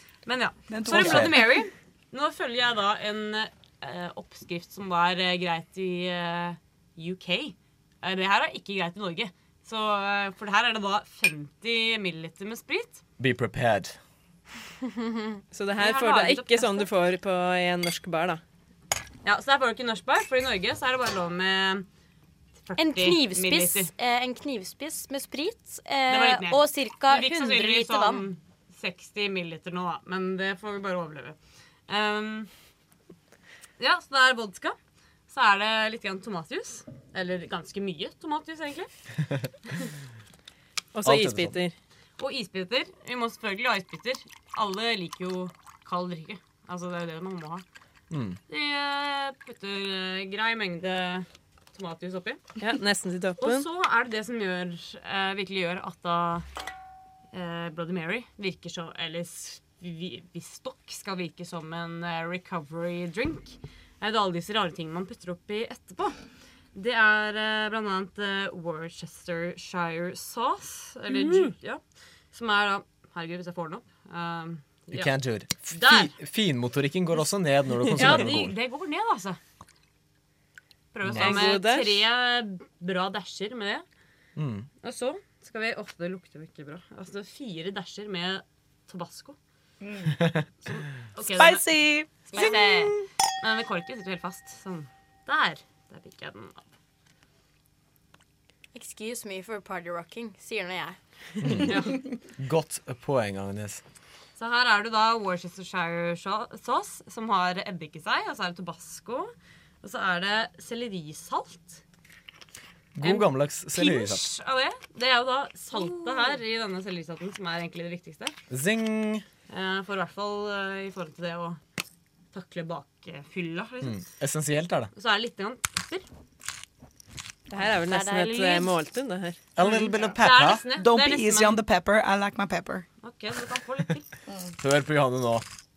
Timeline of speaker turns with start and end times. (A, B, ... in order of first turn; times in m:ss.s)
0:00.2-0:13.0 A
0:00.7-0:01.4 B
0:00.9-0:01.4 C
0:13.2-0:14.0 C
0:14.9-0:15.2 D
0:15.5-0:18.4 E
0:15.8-0:16.9 A
0:19.2-0:21.8 A
0:22.6-0:23.9 A
0:22.8-0:28.2 D
0:26.1-0:32.5 A
0:33.8-0:34.8 A
0:35.3-0:38.9 A
0:40.9-0:41.7 E
0:41.0-0:41.6 C
0:42.2-0:47.6 A
0:48.1-0:48.4 C
0:48.5-0:52.4 A
0:52.6-0:53.6 E
0:53.4-0:56.4 A
0:57.3-1:06.2 A
1:06.7-1:15.1 A
1:14.9-1:18.5 C
1:15.7-1:16.1 A
1:17.9-1:19.4 A
1:20.9-1:23.8 A
1:21.0-1:21.4 C
1:21.2-1:22.0 E
1:24.4-1:24.7 C
1:24.8-1:29.4 A
1:29.8-1:30.1 B
1:30.6-1:31.7 A
1:31.2-1:33.0 B
1:32.3-1:36.6 A
1:32.3-1:32.6 D
1:38.7-1:41.8 D
1:41.4-1:41.8 C
1:41.6-1:42.0 A
1:42.4-1:43.8 C
1:44.4-1:51.8 A
1:52.9-1:54.2 C
1:53.0-1:58.4 A
1:55.7-1:56.0 D
1:58.5-1:59.2 C
1:59.5-2:01.6 A
2:02.3-2:04.0 A
2:03.8-2:04.9 C
2:04.9-2:06.0 A
2:07.5-2:09.4 E
2:07.6-2:08.7 A
2:09.6-2:10.6 C
2:09.6-2:11.6 A
2:10.7-2:12.8 B
2:13.0-2:14.1 A
2:14.6-2:15.4 C